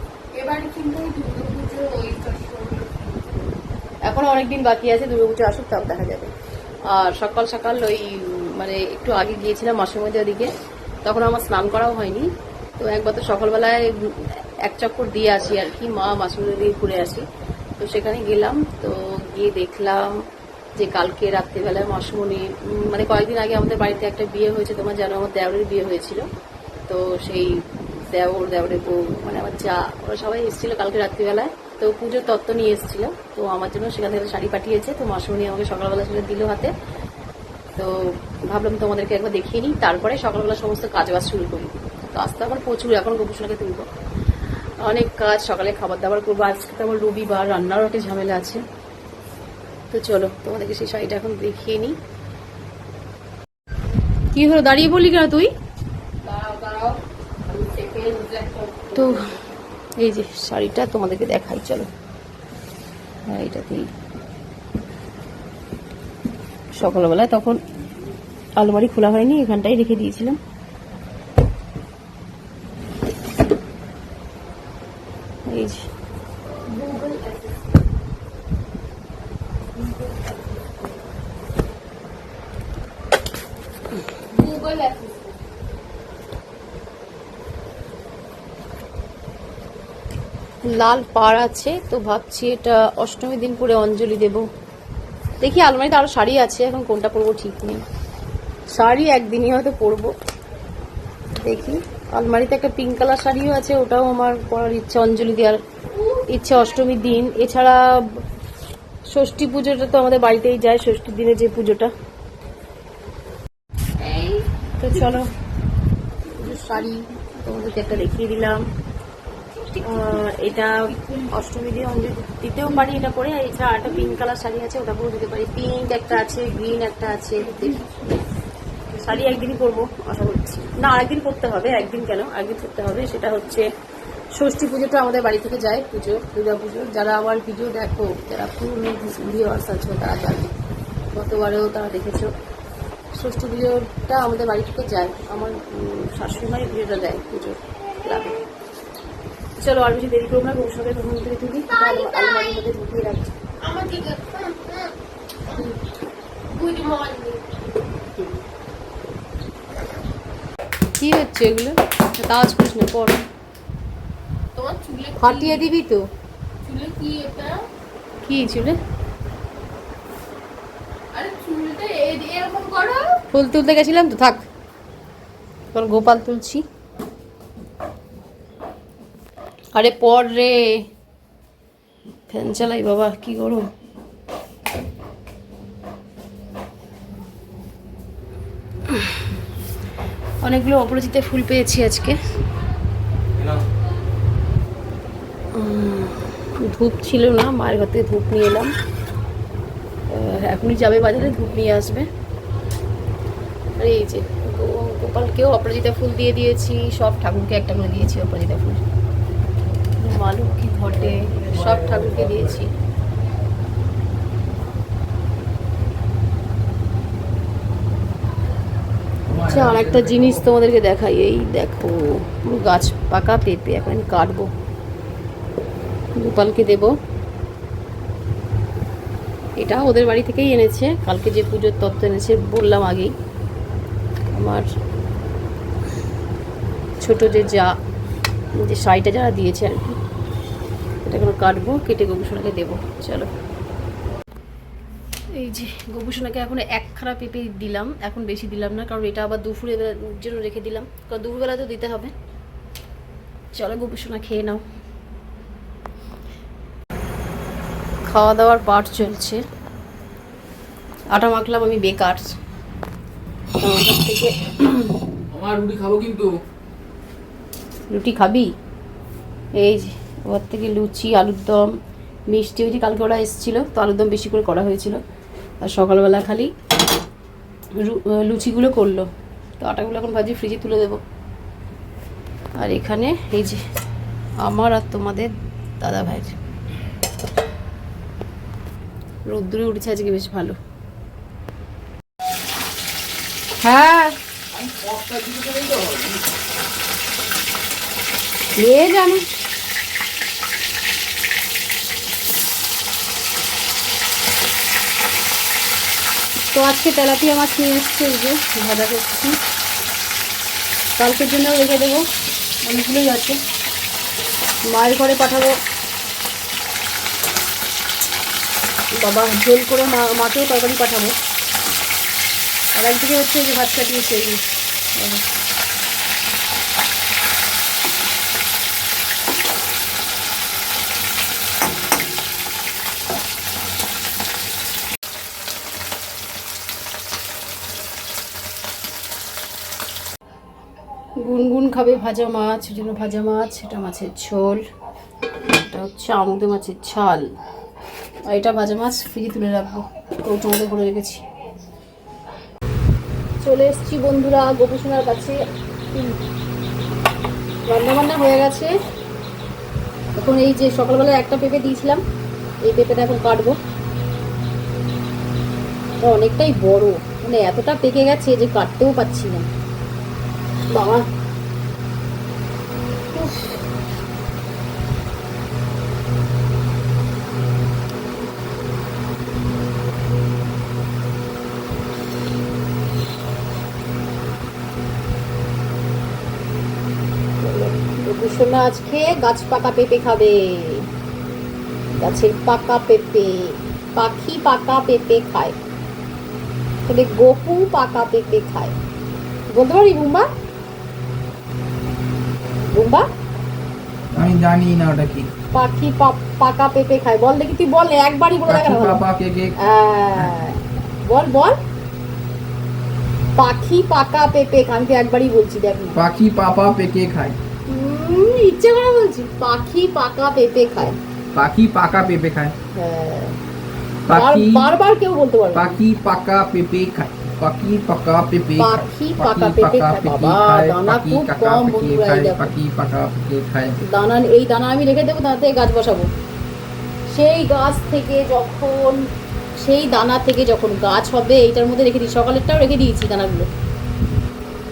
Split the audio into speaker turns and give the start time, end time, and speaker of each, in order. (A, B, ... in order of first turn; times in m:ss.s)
0:00.3-0:03.2 A
0:04.1-0:06.3 B
0:06.9-0:10.5 B
0:11.0-0:17.2 B
0:17.8-0:20.2 B
0:20.8-0:26.3 B
0:26.9-0:36.7 B
0:37.8-0:43.9 B
0:44.8-0:48.6 B
0:49.9-0:52.0 B
0:54.3-0:55.5 B
0:56.2-0:59.2 A
0:58.9-0:59.2 B
1:00.0-1:01.9 B
1:03.3-1:03.9 B
1:06.8-1:07.6 B
1:08.6-1:10.4 B
1:15.5-1:15.8 B
1:16.7-1:17.6 A
1:19.8-1:20.6 A
1:24.2-1:25.4 A
1:30.6-1:34.4 B
1:35.4-1:37.8 B
1:38.8-1:40.1 B
1:41.4-1:45.6 B
1:46.2-1:48.2 B
1:49.1-1:51.9 B
1:54.0-1:54.5 A
1:54.8-1:55.3 B
1:56.3-1:58.6 B
1:59.7-2:00.0 A
1:59.8-2:08.0 B
2:00.8-2:01.2 A
2:08.9-2:13.7 B
2:14.4-2:20.5 B
2:21.1-2:22.3 B
2:23.2-2:28.4 B
2:29.6-2:33.4 B
2:31.7-2:32.4 A
2:33.6-2:34.9 A
2:36.5-2:37.4 A
2:41.0-2:43.3 B
2:44.6-2:45.7 A
2:45.2-2:46.1 B
2:46.6-2:47.7 A
2:48.2-2:48.8 B
2:51.1-2:53.2 A
2:53.3-2:54.5 B
2:55.7-2:56.6 B
2:59.8-3:00.8 B
3:02.3-3:03.7 B
3:08.9-3:09.2 B
3:10.4-3:12.2 B
3:15.5-3:18.7 B
3:20.1-3:22.1 B
3:23.8-3:28.8 B
3:30.0-3:32.7 B
3:31.4-3:32.6 C
3:39.3-3:40.4 C
3:39.4-3:44.5 B
3:46.2-3:46.9 B
3:49.6-3:53.1 B
3:54.3-3:54.7 B
3:57.0-3:57.7 B
3:58.6-4:00.0 B
4:01.0-4:03.3 B
4:05.3-4:12.1 B
4:13.6-4:14.6 B
4:18.1-4:19.4 B
4:21.1-4:22.3 B
4:23.6-4:24.9 B
4:25.3-4:26.3 C
4:27.9-4:28.5 B
4:29.6-4:31.7 B
4:32.3-4:35.0 B
4:35.6-4:36.5 B
4:37.8-4:39.1 B
4:39.6-4:41.0 B
4:42.6-4:43.6 B
4:44.4-4:46.4 B
4:49.3-4:50.6 B
4:53.6-4:54.2 B
4:54.5-4:56.2 C
4:58.6-4:59.2 B
5:06.5-5:09.4 B
5:11.0-5:12.0 B
5:12.6-5:13.4 B
5:14.7-5:15.6 B
5:19.0-5:21.2 B
5:22.8-5:24.4 B
5:25.0-5:25.2 B
5:41.2-5:44.6 B
5:45.5-5:47.3 B
5:48.3-5:51.2 B
5:53.4-5:55.4 B
5:57.7-5:58.7 B
6:00.2-6:02.0 B
6:02.7-6:03.6 B
6:06.0-6:09.5 B
6:10.7-6:11.0 B
6:13.1-6:13.6 B
6:27.4-6:30.9 B
6:32.0-6:35.6 B
6:36.9-6:38.8 B
6:39.5-6:40.3 B
6:42.7-6:43.1 B
6:44.2-6:45.3 C
6:45.5-6:49.0 B
6:48.5-6:49.6 C
6:49.6-6:51.6 B
6:53.4-6:56.0 B
6:56.0-6:57.4 C
6:57.7-7:01.0 B
7:01.4-7:02.5 C
7:02.8-7:03.4 B
7:04.1-7:04.7 C
7:04.1-7:05.8 B
7:05.6-7:13.8 C
7:08.6-7:12.6 B
7:13.8-7:16.1 B
7:17.1-7:19.0 B
7:19.6-7:23.5 B